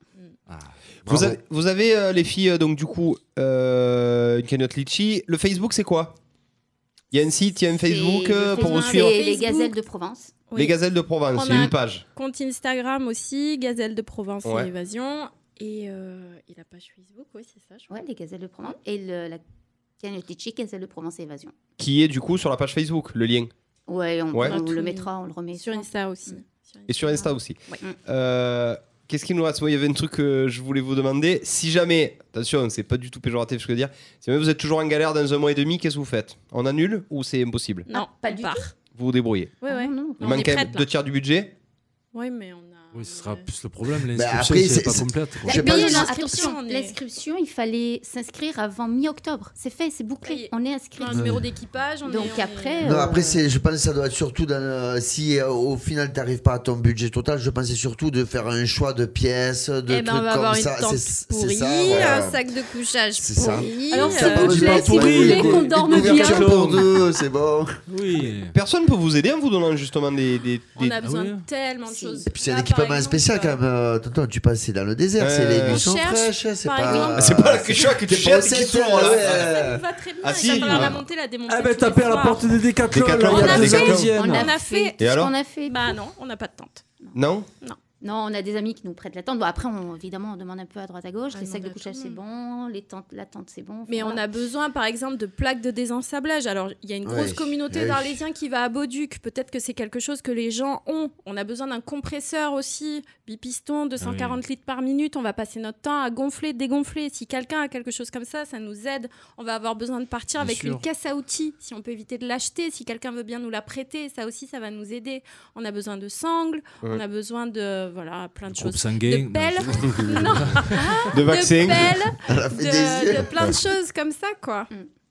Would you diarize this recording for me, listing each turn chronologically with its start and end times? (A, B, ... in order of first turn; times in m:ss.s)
0:00.5-0:00.7 A
0:01.1-0:01.4 B
0:01.1-0:06.2 C
0:07.1-0:09.2 C
0:07.8-0:10.4 D
0:08.5-0:09.7 E
0:10.5-0:10.8 E
0:10.5-0:12.0 C
0:11.3-0:17.9 E
0:14.4-0:14.7 C
0:17.9-0:19.4 D
0:20.0-0:21.5 D
0:21.8-0:23.5 C
0:23.9-0:26.4 D
0:24.3-0:24.6 C
0:24.4-0:27.8 E
0:26.9-0:37.9 C
0:37.9-0:38.7 E
0:37.9-0:38.7 D
0:38.9-0:39.6 C
0:39.6-0:40.9 E
0:39.6-0:40.6 D
0:40.2-0:41.5 C
0:42.1-0:43.5 E
0:42.9-0:45.6 A
0:44.1-0:46.2 B
0:45.4-0:51.4 D
0:45.5-0:47.0 E
0:50.2-0:52.9 E
0:51.1-0:51.4 B
0:52.0-0:53.4 D
0:52.8-1:02.5 B
0:59.9-1:06.6 E
1:03.2-1:07.7 B
1:03.6-1:06.8 D
1:04.0-1:06.8 A
1:07.9-1:08.5 A
1:08.5-1:11.0 C
1:10.8-1:13.6 E
1:11.0-1:11.4 A
1:11.8-1:12.3 D
1:12.3-1:19.8 B
1:15.2-1:15.8 C
1:15.6-1:17.7 E
1:16.8-1:17.1 D
1:17.1-1:21.0 C
1:19.2-1:22.6 E
1:20.5-1:20.9 A
1:21.5-1:24.5 A
1:22.9-1:24.2 C
1:23.3-1:25.0 E
1:24.1-1:26.0 D
1:25.0-1:25.3 C
1:25.6-1:26.9 E
1:27.1-1:27.5 C
1:28.0-1:34.2 D
1:31.3-1:32.2 E
1:33.9-2:04.7 E
1:37.0-1:38.2 B
1:44.0-1:44.4 A
1:50.4-1:50.8 A
1:58.5-2:00.8 A
2:01.1-2:02.0 C
2:02.3-2:03.6 B